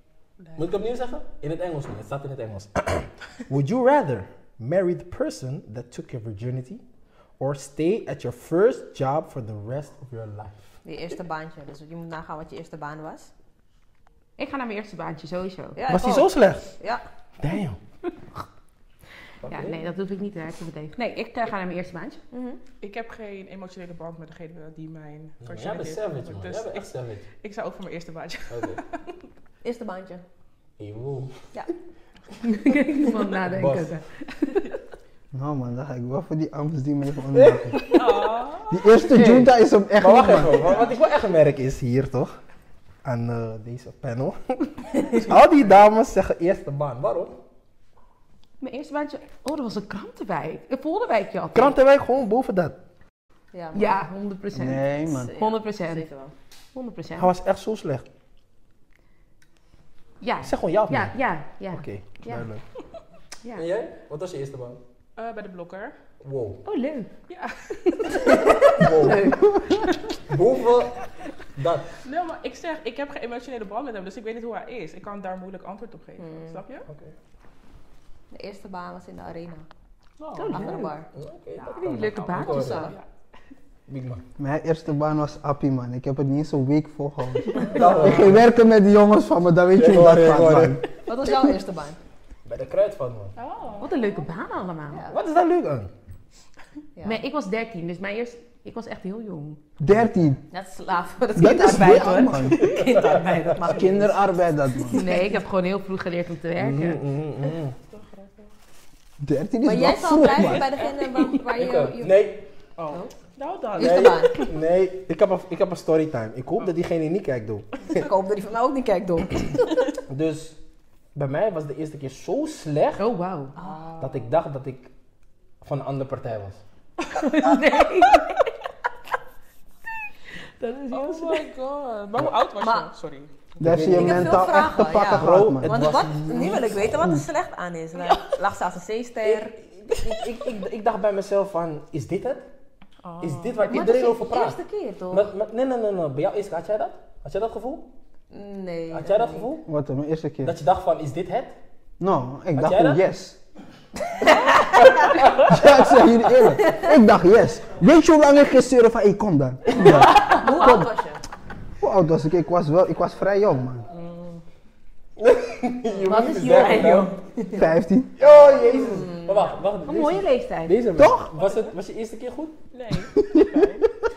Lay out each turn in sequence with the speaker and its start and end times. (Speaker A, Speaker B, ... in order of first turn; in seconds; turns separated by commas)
Speaker A: 0.6-6.8, Speaker A: 7.4-10.7, Speaker B: 10.8-13.3, Speaker C: 14.4-15.8, Speaker B: 15.8-17.1, Speaker A: 15.9-16.7, Speaker A: 17.4-17.8, Speaker A: 19.4-19.8, Speaker C: 19.5-22.2, Speaker B: 22.3-22.6, Speaker D: 22.8-29.0, Speaker A: 25.4-27.3, Speaker A: 28.5-28.8, Speaker B: 29.6-30.2, Speaker A: 30.8-31.5, Speaker C: 32.4-34.7, Speaker A: 33.4-33.9, Speaker E: 35.3-37.9, Speaker A: 37.3-38.0, Speaker D: 37.9-38.9, Speaker E: 38.7-40.8, Speaker A: 39.1-42.3, Speaker A: 43.0-47.4, Speaker C: 48.6-51.8, Speaker A: 51.5-52.8, Speaker B: 53.5-53.8, Speaker C: 53.7-56.1, Speaker E: 54.5-55.4, Speaker B: 55.1-56.3, Speaker C: 56.7-57.3, Speaker A: 57.2-58.1, Speaker C: 60.2-62.5, Speaker A: 60.4-61.1, Speaker A: 61.7-62.6, Speaker A: 63.6-64.8, Speaker D: 65.2-66.0, Speaker A: 66.2-66.6, Speaker C: 66.6-67.1, Speaker D: 67.3-68.2, Speaker C: 68.0-70.1, Speaker A: 68.8-69.4, Speaker E: 69.3-69.7, Speaker A: 70.2-71.0, Speaker A: 71.6-71.9, Speaker D: 72.0-76.9, Speaker B: 76.2-76.6, Speaker A: 76.9-77.1, Speaker B: 78.3-79.7, Speaker D: 80.2-80.9, Speaker C: 80.3-80.9, Speaker B: 80.5-81.1, Speaker A: 81.1-82.9, Speaker C: 81.6-82.9, Speaker D: 82.3-83.1, Speaker B: 82.4-82.9, Speaker A: 83.9-84.2, Speaker E: 84.4-90.8, Speaker A: 87.7-88.5, Speaker D: 87.8-88.1, Speaker A: 89.7-90.8, Speaker B: 91.1-92.0, Speaker A: 92.5-93.3, Speaker D: 93.4-94.2, Speaker C: 93.8-95.0, Speaker A: 95.1-95.9, Speaker B: 97.0-97.2, Speaker C: 97.0-99.6, Speaker E: 99.8-100.4, Speaker B: 100.5-104.2, Speaker E: 101.4-102.7, Speaker A: 102.6-103.2, Speaker E: 103.6-105.0, Speaker B: 104.8-105.3, Speaker C: 104.9-107.0, Speaker A: 106.6-107.8, Speaker D: 107.9-108.5, Speaker E: 109.2-110.7, Speaker B: 109.7-112.3, Speaker D: 110.2-111.3, Speaker A: 111.3-112.5, Speaker D: 112.8-114.2, Speaker A: 113.8-118.1, Speaker B: 113.8-114.5, Speaker B: 117.9-120.0, Speaker A: 120.1-120.6, Speaker A: 121.2-123.0, Speaker C: 123.0-123.6, Speaker B: 123.6-123.9, Speaker D: 123.6-124.3, Speaker A: 124.0-124.9, Speaker A: 125.6-126.6, Speaker C: 127.1-128.5, Speaker C: 130.6-131.4, Speaker D: 130.9-133.3, Speaker B: 132.6-132.9, Speaker A: 133.6-136.8, Speaker E: 133.6-137.3, Speaker B: 133.9-139.6, Speaker D: 138.0-138.3, Speaker A: 139.2-142.5, Speaker D: 143.0-143.7, Speaker A: 143.2-144.6, Speaker B: 143.7-145.3, Speaker A: 145.1-147.9, Speaker B: 148.3-149.5, Speaker A: 148.9-149.7, Speaker E: 149.7-150.6, Speaker A: 150.4-151.6, Speaker E: 152.0-153.4, Speaker A: 152.6-153.0, Speaker B: 154.2-155.4, Speaker A: 155.0-155.5, Speaker E: 155.3-160.9, Speaker B: 156.6-156.9, Speaker B: 159.7-161.2, Speaker D: 159.9-160.4, Speaker C: 160.4-160.8, Speaker E: 161.8-163.9, Speaker D: 163.9-164.4, Speaker A: 165.2-167.2, Speaker C: 166.1-167.2, Speaker E: 167.5-168.2, Speaker A: 168.2-172.6, Speaker B: 168.8-169.6, Speaker C: 169.8-170.8, Speaker E: 170.9-171.3, Speaker D: 171.3-171.7, Speaker D: 172.7-173.9